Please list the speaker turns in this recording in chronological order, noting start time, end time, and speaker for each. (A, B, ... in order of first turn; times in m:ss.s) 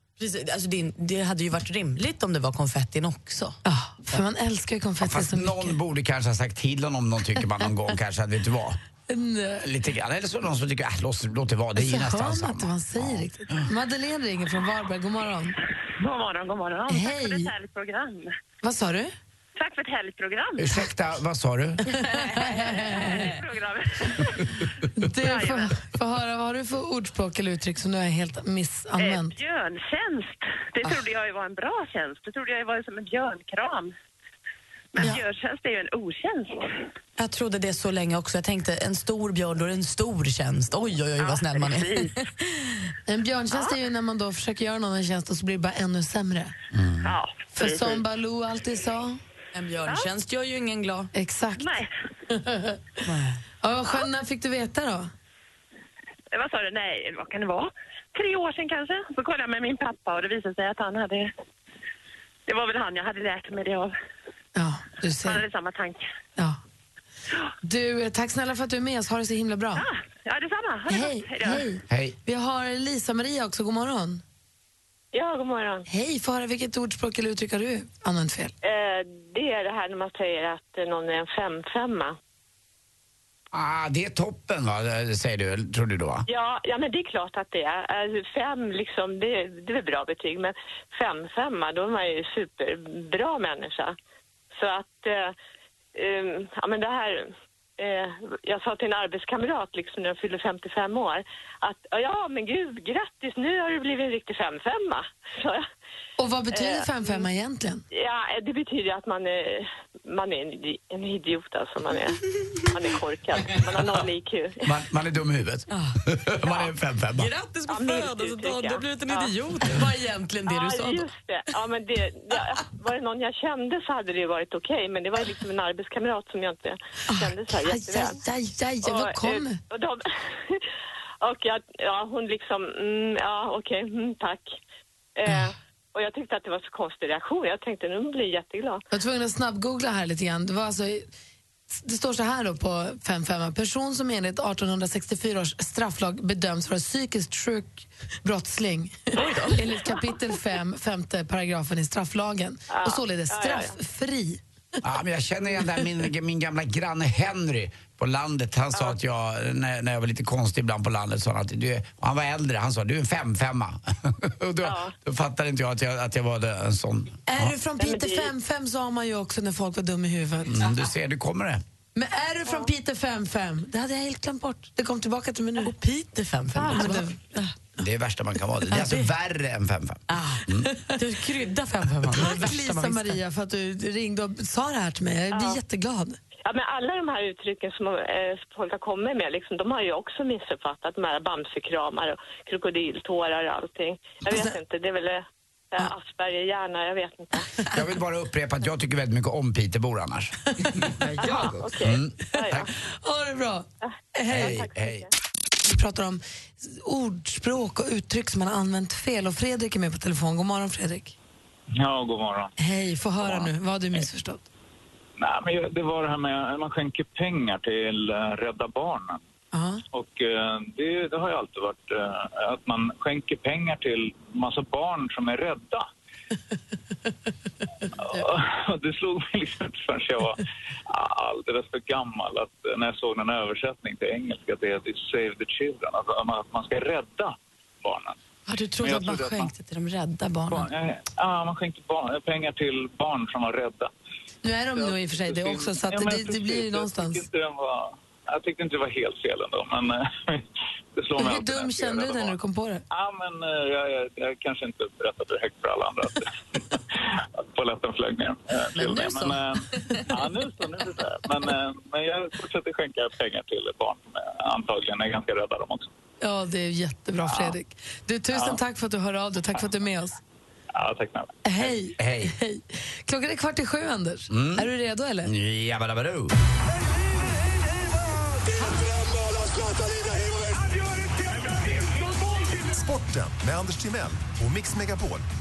0:00.2-0:03.6 A
0:03.6-0:05.8 B
0:05.0-0:08.8 C
0:09.1-0:09.7 B
0:09.6-0:13.3 C
0:11.8-0:15.6 B
0:16.0-0:18.4 D
0:16.9-0:17.5 B
0:18.6-0:19.2 B
0:19.6-0:20.8 D
0:20.6-0:22.0 C
0:22.1-0:23.3 B
0:22.2-0:24.6 D
0:25.0-0:29.3 B
0:25.2-0:25.8 D
0:29.0-0:33.9 D
0:34.9-0:36.7 D
0:37.2-0:42.2 A
0:41.2-0:42.2 D
0:43.1-0:46.6 B
0:46.7-0:47.0 C
0:47.0-0:48.0 D
0:47.5-0:49.2 B
0:49.5-0:51.1 A
0:49.9-0:50.1 D
0:51.1-0:51.8 B
0:51.6-0:51.9 D
0:52.3-0:52.8 B
0:53.1-0:53.4 A
0:53.6-0:55.1 B
0:56.3-1:01.3 D
1:02.5-1:03.9 D
1:04.6-1:05.4 B
1:05.2-1:06.0 D
1:07.6-1:09.8 B
1:09.8-1:11.7 D
1:10.9-1:14.2 B
1:11.9-1:12.2 C
1:15.1-1:15.9 E
1:15.9-1:18.5 B
1:18.6-1:22.2 E
1:23.5-1:26.2 C
1:26.3-1:34.0 E
1:34.5-1:35.4 E
1:36.0-1:45.6 E
1:46.2-1:47.8 B
1:46.5-1:47.3 E
1:47.9-1:54.7 E
1:54.6-1:57.3 C
1:55.7-2:01.0 A
1:57.7-1:59.3 E
2:00.5-2:08.2 E
2:07.1-2:09.6 B
2:08.8-2:10.6 E
2:11.2-2:14.6 E
2:15.2-2:18.8 E
2:18.9-2:21.1 B
2:21.7-2:34.4 B
2:29.2-2:29.6 A
2:32.7-2:33.8 E
2:34.8-2:47.5 C
2:44.6-2:44.9 E
2:47.3-2:50.6 B
2:47.8-2:48.3 E
2:50.5-2:51.6 C
2:52.0-2:55.7 B
2:55.6-2:57.5 A
2:56.6-2:57.2 B
2:57.8-3:00.7 C
2:58.7-2:59.1 A
3:00.1-3:03.2 A
3:02.1-3:06.2 B
3:05.3-3:05.6 E
3:06.4-3:17.5 E
3:14.3-3:14.6 B
3:17.7-3:20.4 C
3:21.2-3:22.7 E
3:21.3-3:22.7 C
3:23.0-3:24.7 B
3:24.3-3:25.1 C
3:24.4-3:25.1 E
3:25.6-3:31.2 B
3:31.8-3:32.5 F
3:32.6-3:34.5 B
3:33.2-3:34.0 F
3:35.2-3:39.2 F
3:39.5-3:39.8 B
3:39.9-3:45.9 F
3:48.0-3:58.2 F
3:58.5-4:00.7 A
3:58.8-3:59.5 F
4:00.5-4:03.9 F
4:04.4-4:07.2 B
4:04.7-4:10.4 F
4:11.0-4:12.4 F
4:11.2-4:12.8 B
4:12.9-4:25.9 F
4:18.8-4:20.0 A
4:26.2-4:30.2 B
4:27.3-4:27.5 F
4:28.3-4:28.6 F
4:30.7-4:31.4 F
4:31.4-4:35.3 B
4:32.0-4:32.4 C
4:34.3-4:34.7 C
4:35.2-4:36.4 C
4:39.8-4:40.3 G
4:42.4-4:45.2 G